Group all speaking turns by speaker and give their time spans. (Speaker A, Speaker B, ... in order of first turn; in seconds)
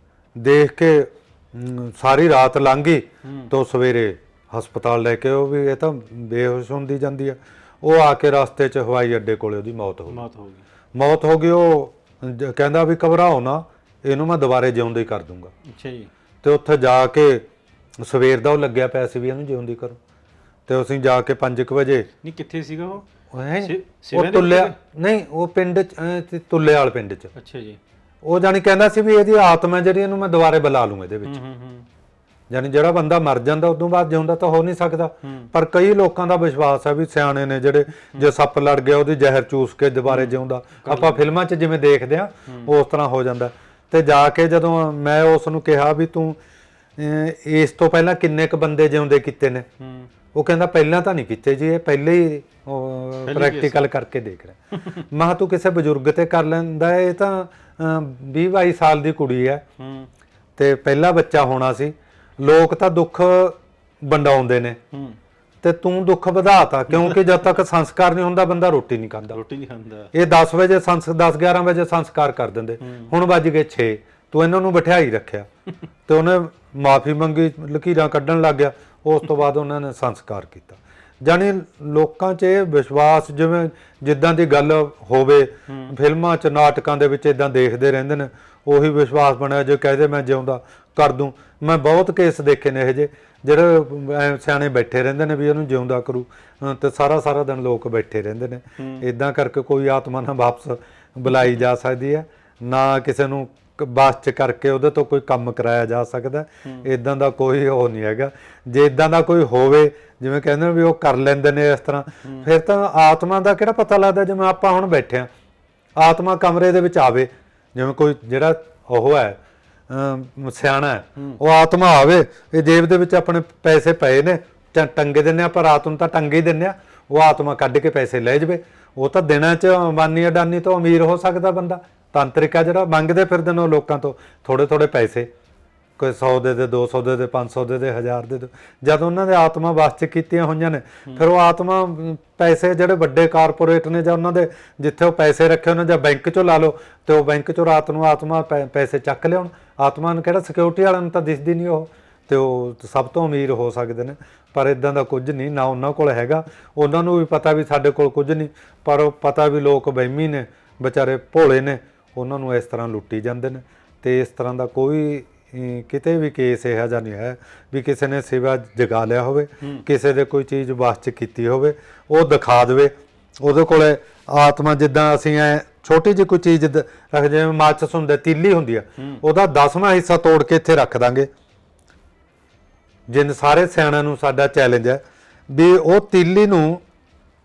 Speaker A: 0.4-10.2, 10.9-15.5, 16.4-17.4, 18.0-20.0, 20.7-22.1, 23.3-27.3, 28.2-31.4, 32.5-46.4, 47.0-49.7, 50.3-59.6, 60.6-64.8, 65.6-69.4, 70.1-75.5, 76.1-115.3, 116.0-135.3, 136.0-181.3, 183.1-186.8
Speaker B: 3.2-3.5, 10.1-10.6, 15.6-16.1, 22.2-23.1, 23.6-24.8, 27.3-27.8, 31.2-31.9, 35.2-35.5, 40.1-41.2, 42.5-42.7, 49.8-50.1, 53.3-53.8, 59.8-60.1, 64.9-65.2, 69.3-70.1, 72.8-73.1, 85.7-85.9, 98.8-99.0, 179.0-179.2